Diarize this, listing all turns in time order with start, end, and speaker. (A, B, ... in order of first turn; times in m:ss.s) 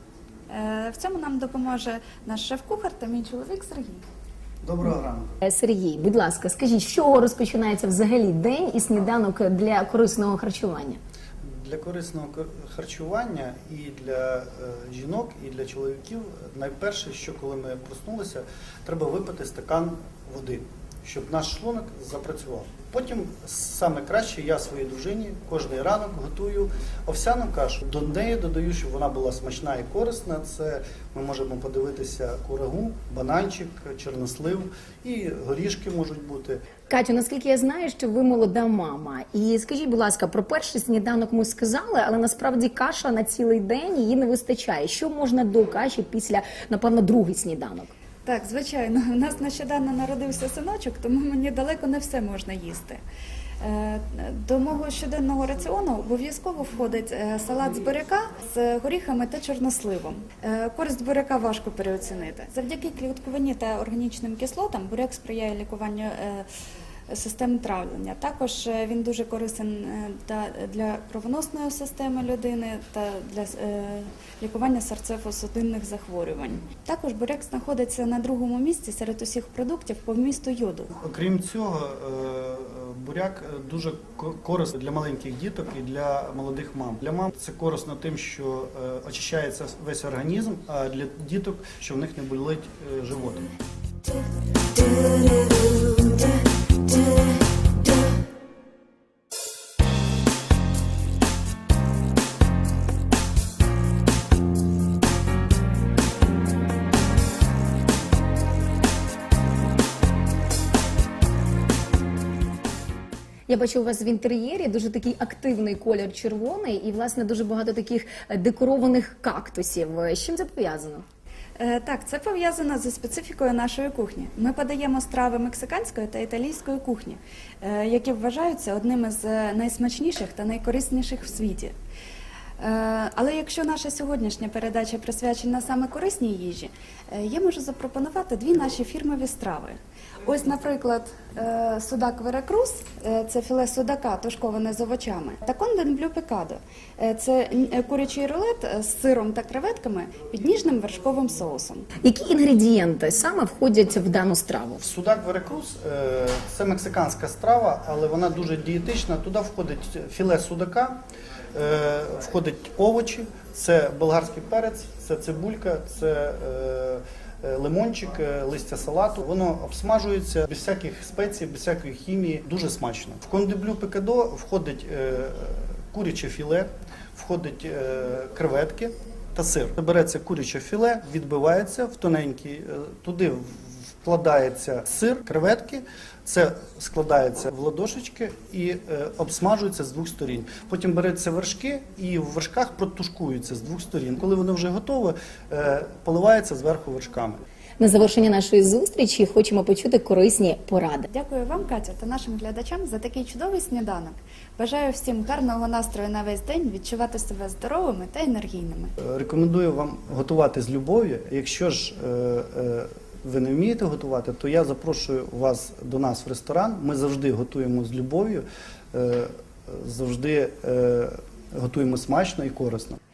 0:00.5-0:04.0 A
0:04.6-0:05.3 B
0:05.4-0:11.0 C
0:11.4-0:36.6 B
0:36.9-0:47.9 C
0:48.2-0:53.0 A
0:53.6-1:06.5 A
1:07.1-1:20.9 A
1:20.9-1:33.5 B
1:53.5-2:01.0 C
2:01.6-2:11.7 A
2:12.6-2:31.9 A
2:32.0-2:34.8 C
2:34.8-2:41.0 B
2:41.5-3:17.4 B
3:17.8-3:21.1 C
3:21.1-3:28.9 A
3:29.0-3:43.0 B